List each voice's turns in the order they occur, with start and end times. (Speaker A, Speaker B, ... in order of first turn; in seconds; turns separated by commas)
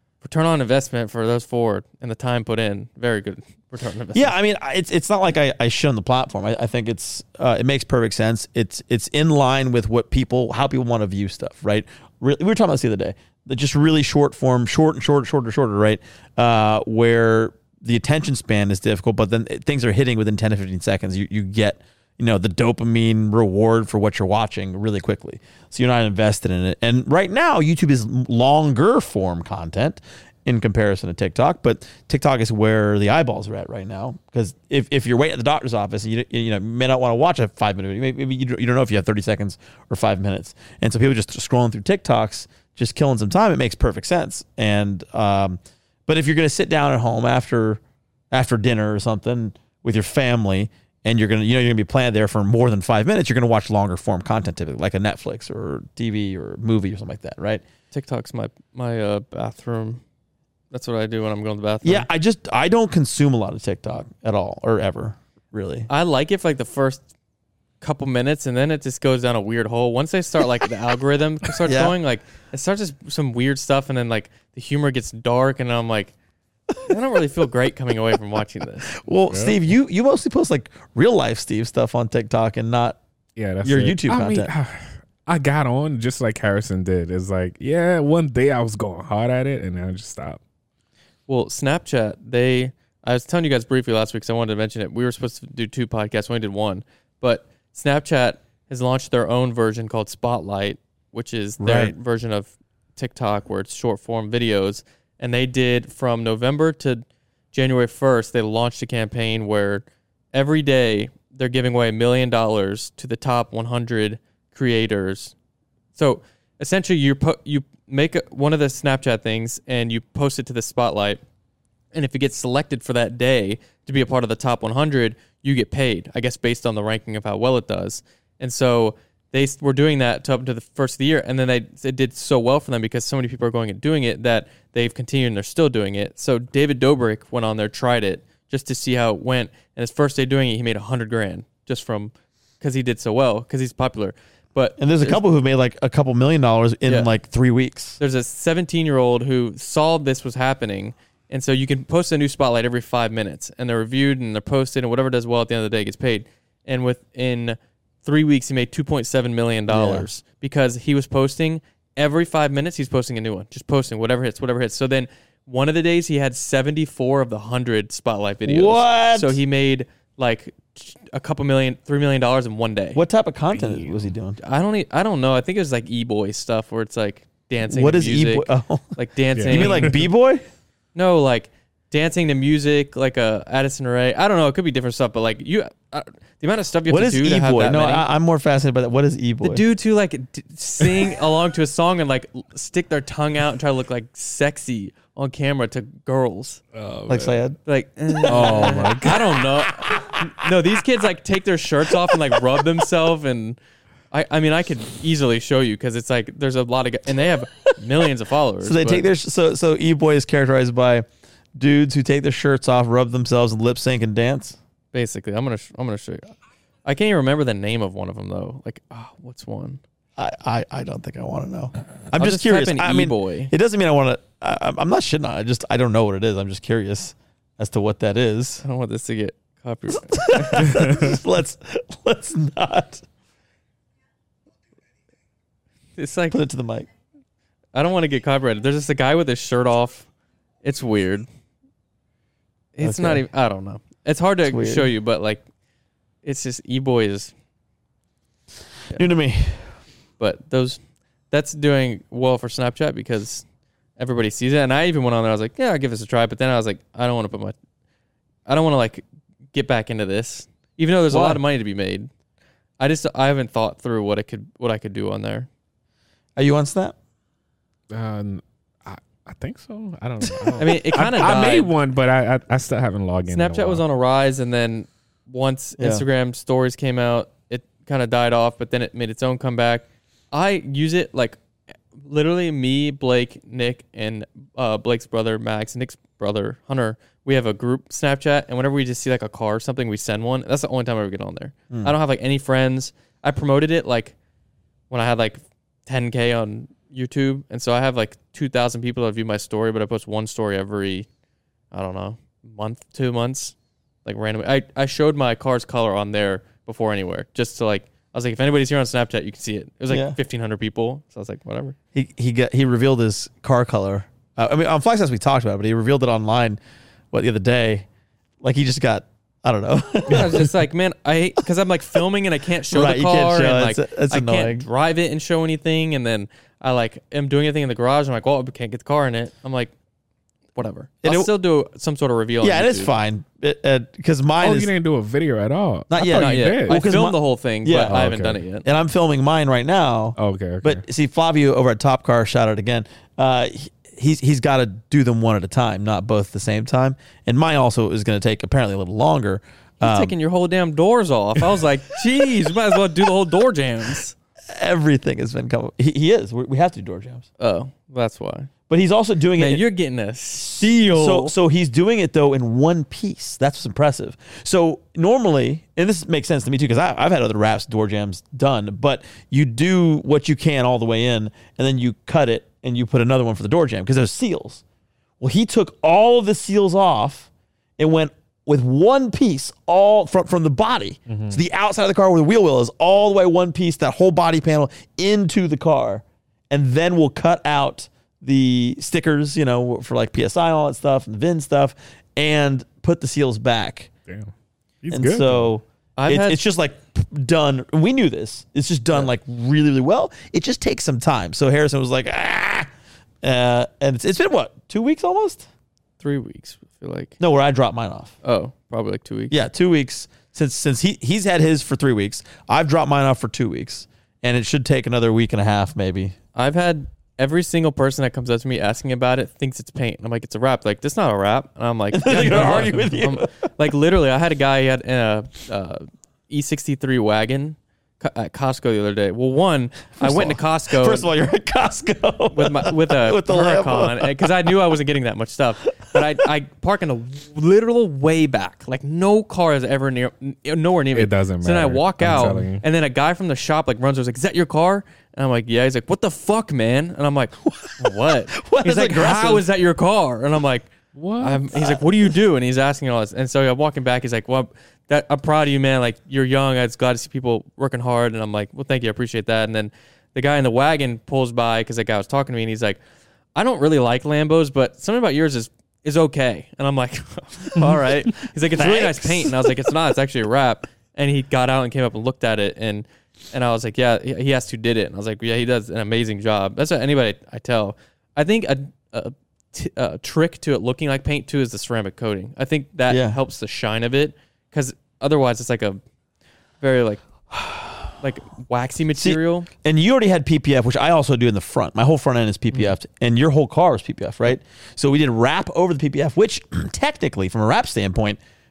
Speaker A: 0.2-4.3, Speaker B: 4.1-57.6, Speaker A: 57.9-60.0, Speaker A: 60.7-62.1, Speaker B: 61.8-65.9, Speaker A: 65.9-67.1, Speaker A: 67.8-76.1, Speaker B: 71.6-72.0, Speaker B: 76.7-77.0, Speaker A: 76.8-79.0, Speaker B: 79.0-83.0, Speaker C: 79.3-79.6, Speaker C: 83.4-90.4, Speaker B: 83.6-84.5, Speaker A: 91.3-115.3, Speaker B: 101.6-102.0, Speaker A: 116.0-121.2, Speaker A: 121.9-145.2, Speaker B: 144.8-148.0, Speaker A: 148.0-173.0, Speaker B: 159.7-160.1, Speaker B: 168.5-169.4, Speaker B: 172.9-174.4, Speaker C: 173.5-174.1, Speaker A: 174.4-180.1, Speaker B: 177.6-179.0, Speaker C: 179.4-180.0, Speaker B: 179.5-180.4, Speaker A: 180.9-188.1, Speaker B: 186.9-189.6, Speaker A: 189.4-196.6, Speaker C: 196.7-197.4, Speaker B: 197.1-200.5, Speaker A: 197.7-203.6, Speaker C: 198.3-199.2, Speaker B: 201.8-202.8, Speaker A: 204.1-209.1, Speaker B: 208.6-214.6, Speaker A: 214.9-216.3, Speaker A: 216.8-219.8, Speaker B: 220.2-228.6, Speaker A: 222.1-223.5, Speaker A: 228.6-230.9, Speaker B: 229.9-233.0, Speaker A: 236.0-236.4, Speaker B: 236.3-236.9, Speaker A: 237.7-240.1, Speaker A: 240.6-241.3, Speaker A: 242.8-245.4, Speaker B: 242.8-243.2, Speaker B: 244.4-244.9, Speaker A: 246.2-247.3, Speaker B: 248.9-249.8, Speaker A: 250.2-250.8, Speaker A: 251.3-253.4, Speaker A: 254.0-257.6, Speaker A: 258.5-262.1, Speaker B: 261.1-261.4, Speaker A: 262.8-265.5, Speaker B: 266.4-266.9, Speaker C: 267.9-273.8, Speaker A: 270.6-271.7, Speaker A: 273.3-281.4, Speaker B: 275.8-276.1, Speaker A: 281.9-294.1, Speaker A: 294.9-301.1, Speaker A: 301.7-311.8, Speaker B: 309.9-310.2, Speaker B: 311.9-316.6, Speaker B: 317.1-317.9, Speaker B: 318.4-320.5, Speaker A: 320.1-329.7, Speaker B: 322.7-324.7, Speaker A: 330.6-332.9, Speaker B: 331.0-331.3, Speaker B: 332.4-334.7, Speaker C: 334.4-336.9, Speaker B: 335.9-338.0, Speaker A: 336.0-338.7, Speaker C: 337.9-338.4, Speaker B: 338.6-350.1, Speaker C: 340.2-340.8, Speaker A: 349.8-354.1, Speaker B: 352.2-352.6, Speaker B: 354.5-357.3, Speaker A: 357.4-358.5, Speaker B: 358.7-359.6, Speaker A: 359.4-361.3, Speaker B: 360.4-374.6, Speaker B: 375.2-393.9, Speaker C: 381.1-381.4, Speaker C: 394.8-395.5, Speaker B: 394.9-402.7, Speaker A: 396.0-396.4, Speaker B: 403.2-405.4, Speaker A: 406.0-407.2, Speaker B: 407.2-408.1, Speaker A: 408.2-409.4, Speaker B: 409.3-416.1, Speaker A: 416.4-431.1, Speaker B: 421.9-423.3, Speaker B: 430.0-434.3, Speaker A: 432.3-462.8, Speaker B: 435.8-436.1, Speaker C: 440.9-442.6, Speaker B: 447.4-449.5, Speaker C: 450.9-451.5, Speaker B: 451.5-452.1, Speaker A: 463.4-485.8, Speaker B: 468.5-469.7, Speaker B: 482.9-483.2, Speaker A: 486.6-487.0, Speaker B: 487.3-487.9, Speaker A: 488.0-489.5, Speaker B: 489.0-498.2